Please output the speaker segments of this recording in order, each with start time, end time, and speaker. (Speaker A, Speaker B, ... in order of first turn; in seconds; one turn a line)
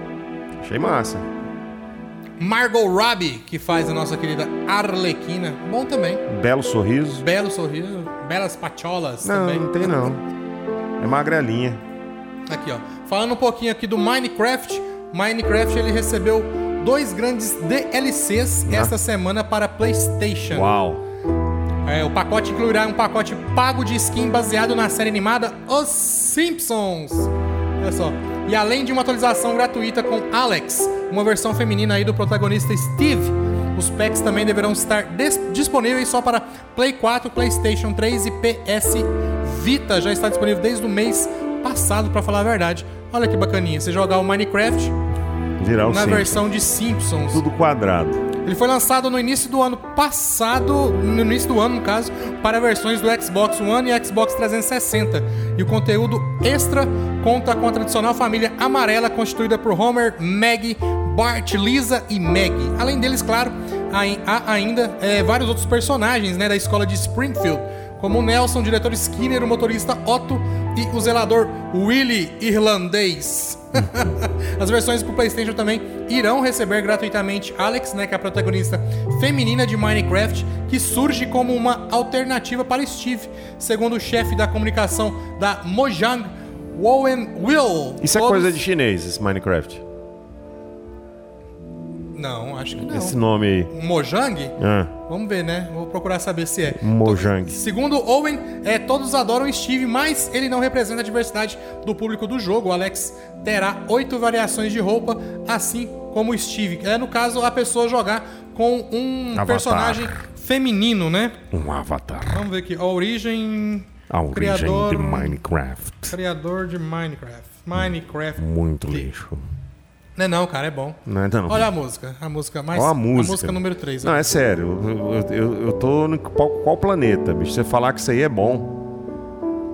Speaker A: 0.6-1.2
Speaker B: 2.4-6.2
Speaker A: 6.3-7.2
Speaker B: 7.2-10.1
Speaker A: 9.2-10.2
Speaker A: 11.0-11.8
Speaker B: 12.5-20.7
Speaker A: 18.7-18.9
Speaker A: 20.5-21.0
Speaker B: 21.8-44.9
Speaker A: 45.6-46.5
Speaker B: 45.9-47.4
Speaker A: 47.3-48.2
Speaker B: 48.4-88.6
Speaker A: 88.0-89.8
Speaker B: 92.1-93.2
Speaker A: 92.8-93.7
Speaker B: 93.7-94.5
Speaker A: 94.6-94.9
Speaker B: 95.1-111.4
Speaker A: 96.7-97.6
Speaker A: 109.3-110.2
Speaker A: 111.5-112.4
Speaker B: 112.3-115.3
Speaker A: 114.1-116.2
Speaker B: 116.1-119.1
Speaker A: 118.4-119.5
Speaker B: 120.2-124.3
Speaker A: 121.0-121.7
Speaker A: 122.7-128.7